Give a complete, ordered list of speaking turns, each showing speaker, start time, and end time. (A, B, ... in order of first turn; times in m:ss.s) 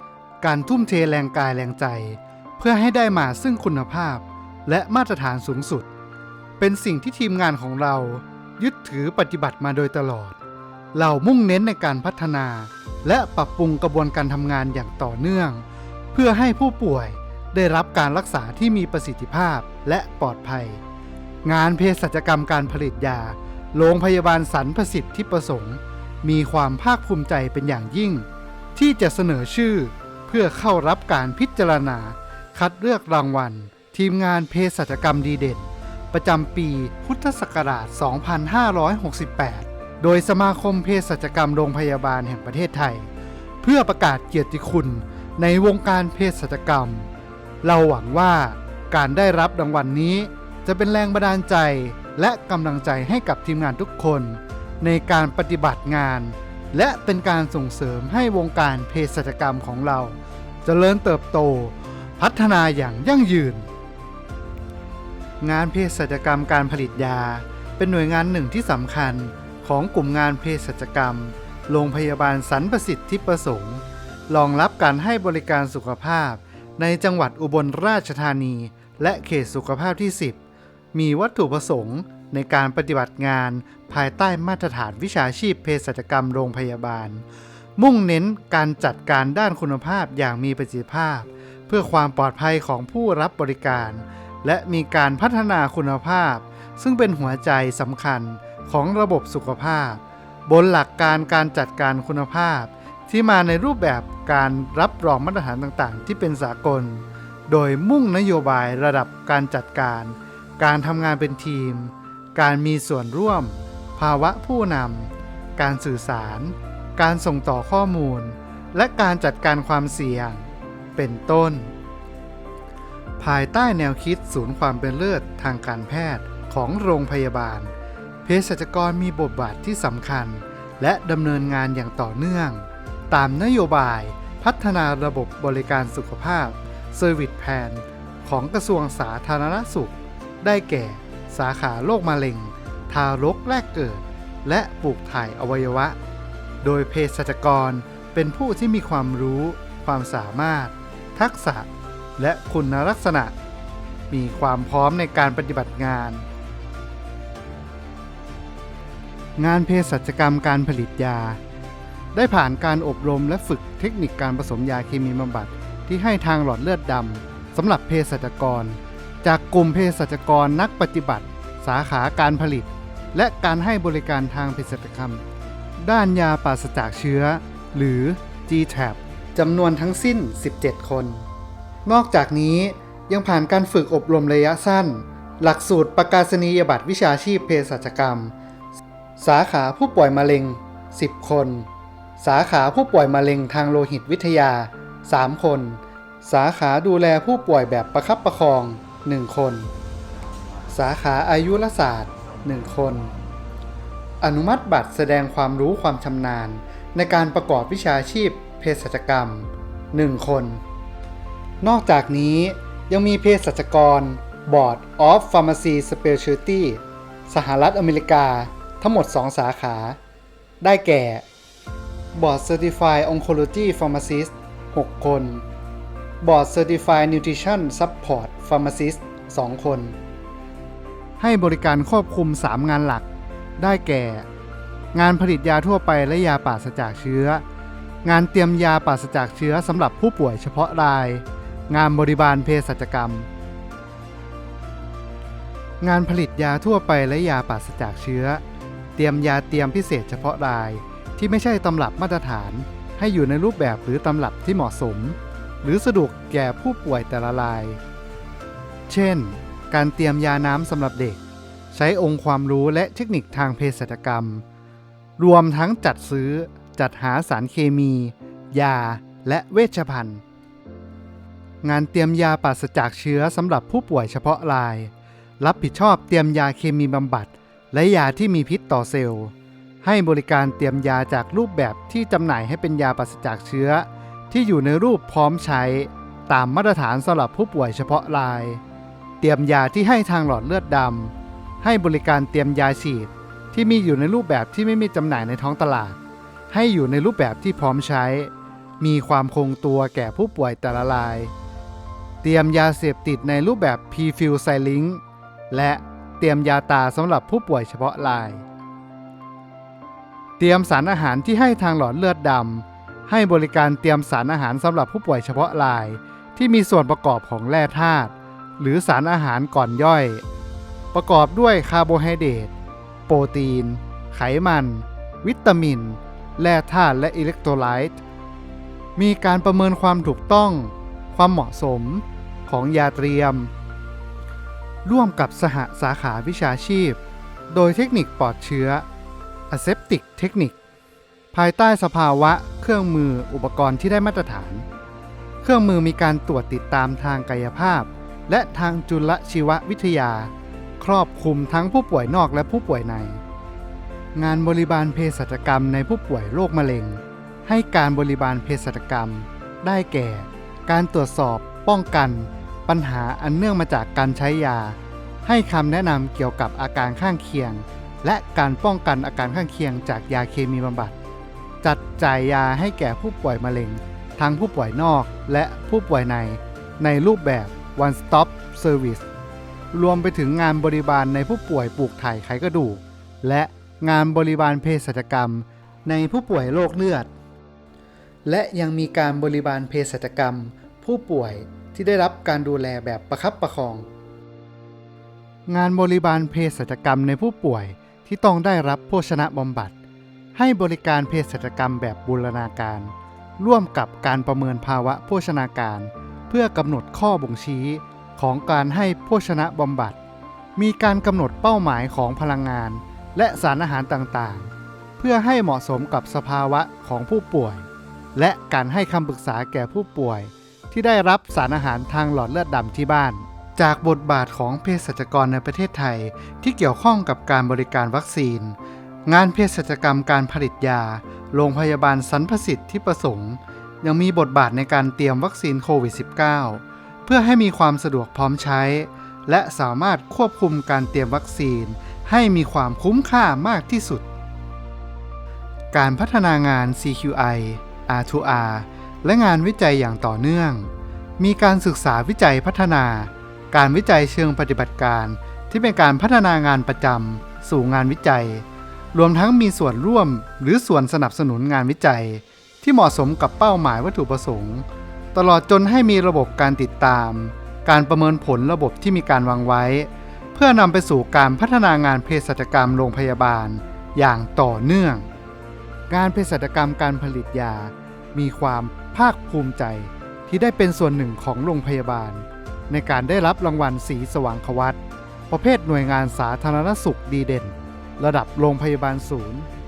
0:00.4-0:05.9 A
0:06.6-0:10.4 A
0:10.9-0:20.8 A
0:21.4-0:43.1 A
0:43.6-0:47.1 A
0:47.6-1:03.7 A
1:05.4-1:20.4 A
1:20.9-1:27.3 A
1:27.8-2:01.7 A
2:03.2-2:07.7 A
2:08.2-2:26.0 A
2:26.6-2:33.3 A
2:34.1-2:36.2 A
2:39.4-2:41.4 A
2:42.1-2:55.2 A
2:55.8-3:01.3 A
3:01.8-3:08.3 A
3:09.2-3:19.7 A
3:20.7-3:23.1 A
3:24.2-3:30.6 A
3:31.6-3:40.0 A
3:40.6-3:41.2 A
3:42.1-3:45.5 A
3:46.2-3:50.0 A
3:51.2-3:53.1 A
3:53.6-3:54.3 A
3:54.9-3:57.4 A
3:58.0-4:03.3 A
4:05.8-4:08.4 A
4:09.0-4:17.8 A
4:18.9-4:21.2 A
4:21.7-4:24.4 A
4:25.2-4:30.2 A
4:31.6-4:48.6 A
4:49.2-4:56.0 A
4:56.5-5:01.3 A
5:02.2-5:08.4 A
5:10.4-5:20.2 A
5:20.9-5:22.5 A
5:23.1-5:28.0 A
5:29.0-5:33.5 A
5:34.8-5:37.0 A
5:37.5-5:38.9 A
5:39.5-5:40.6 A
5:41.3-5:44.7 A
5:45.4-5:53.2 A
5:54.2-6:11.0 A
6:11.6-6:19.1 A
6:19.7-6:27.1 A
6:28.3-6:33.9 A
6:35.5-6:39.8 A
6:40.4-6:50.0 A
6:50.6-7:24.1 A
7:25.7-7:55.1 A
7:55.9-8:09.5 A